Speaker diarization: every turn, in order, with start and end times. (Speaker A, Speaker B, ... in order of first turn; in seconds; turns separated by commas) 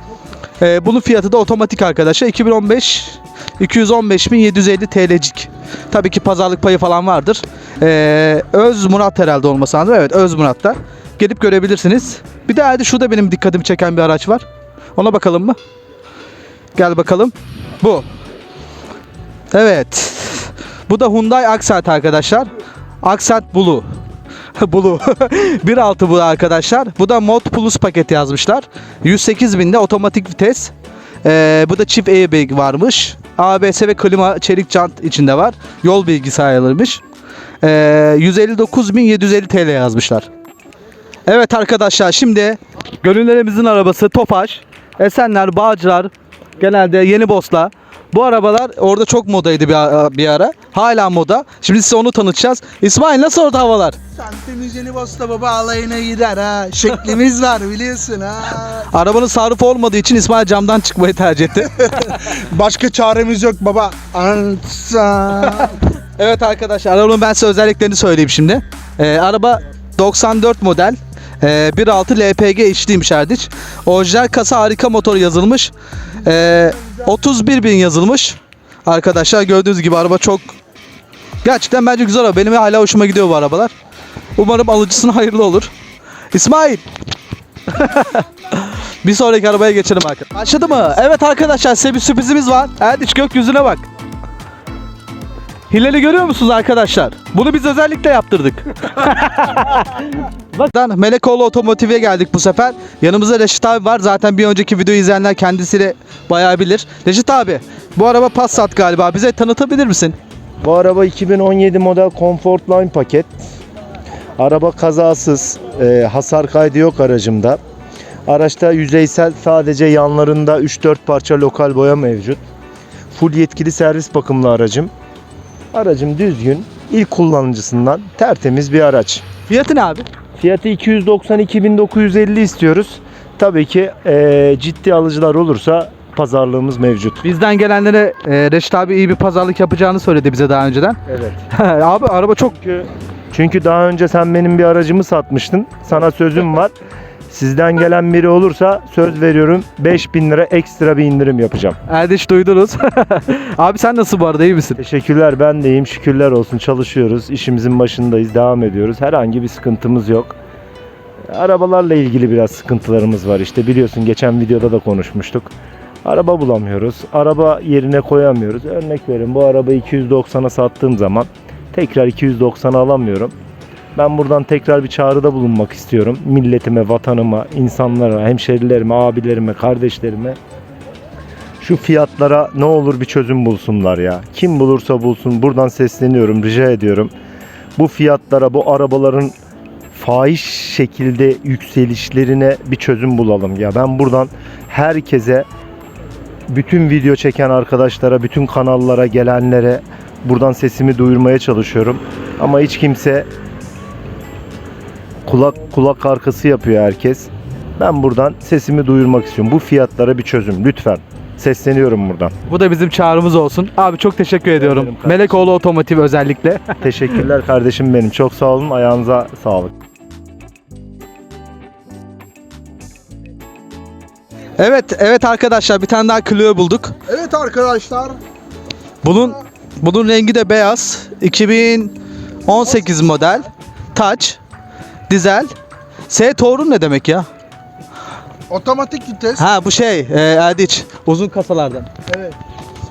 Speaker A: 0.6-14.4, Speaker A: 15.0-15.6, Speaker A: 16.8-18.1, Speaker A: 19.5-22.5, Speaker A: 23.0-23.9, Speaker A: 24.6-30.7, Speaker A: 31.2-37.0, Speaker A: 37.6-40.2, Speaker A: 41.3-54.0, Speaker B: 54.2-58.6, Speaker A: 58.5-62.3, Speaker B: 62.5-65.7, Speaker A: 65.4-80.5, Speaker A: 81.4-83.7, Speaker A: 84.4-85.7, Speaker A: 86.3-86.8, Speaker A: 87.7-93.8, Speaker A: 95.7-99.9, Speaker A: 100.5-110.1, Speaker C: 110.6-113.3, Speaker C: 114.4-117.6, Speaker C: 118.3-122.4, Speaker C: 123.1-124.9, Speaker C: 125.7-129.2, Speaker A: 129.5-130.0, Speaker C: 130.4-137.2, Speaker A: 137.2-141.0, Speaker C: 141.1-141.3, Speaker A: 141.5-142.7, Speaker C: 143.3-146.7, Speaker C: 147.3-151.8, Speaker A: 151.9-154.8, Speaker C: 154.8-160.3, Speaker C: 161.3-165.5, Speaker C: 166.0-173.3, Speaker C: 173.9-180.4, Speaker C: 181.6-187.1, Speaker C: 187.8-189.3, Speaker C: 189.9-195.5, Speaker C: 196.5-203.3, Speaker C: 205.2-212.3, Speaker A: 212.5-216.7, Speaker C: 214.6-215.3, Speaker C: 216.8-219.7, Speaker A: 224.6-226.9, Speaker B: 227.1-228.2, Speaker A: 229.0-231.9, Speaker A: 232.4-234.4, Speaker A: 235.1-235.5, Speaker A: 236.1-237.3, Speaker B: 238.5-239.4, Speaker A: 239.3-241.9, Speaker B: 242.1-242.3